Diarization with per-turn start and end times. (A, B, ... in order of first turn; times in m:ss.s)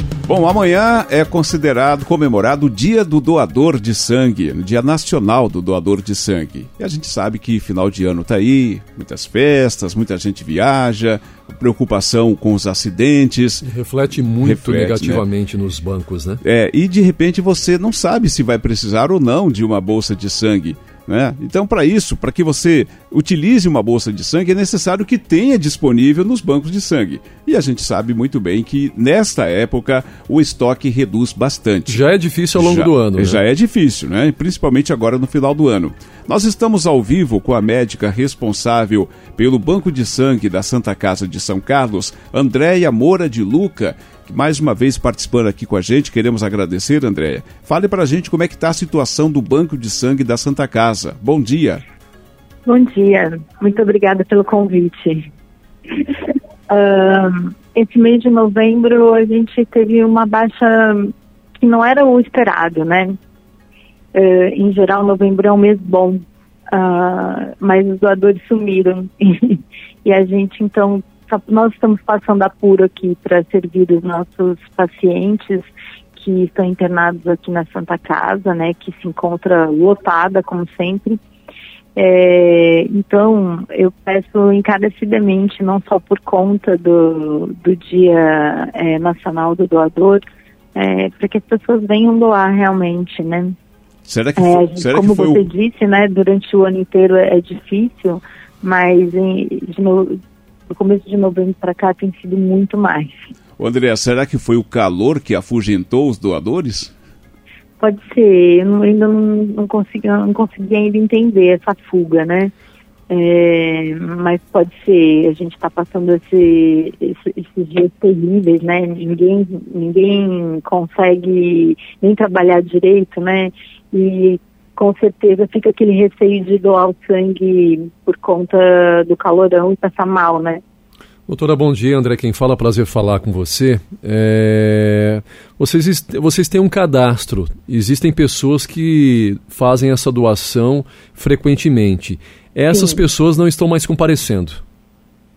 0:00.3-0:13.6 A
0:13.6-0:16.4 B
0:14.4-0:15.2 A
0:16.4-0:32.0 A
0:31.9-0:33.4 B
0:32.6-0:51.8 A
0:52.7-0:55.3 C
0:56.7-1:03.2 C
1:04.1-1:15.6 C
1:16.2-1:21.2 C
1:22.0-1:30.2 C
1:30.8-1:33.6 C
1:34.0-1:35.4 A
1:34.4-1:40.2 C
1:40.7-1:43.3 C
1:43.6-1:46.9 A
1:47.8-1:52.5 C
1:53.1-2:10.6 C
2:11.3-2:24.6 B
2:22.7-2:23.0 C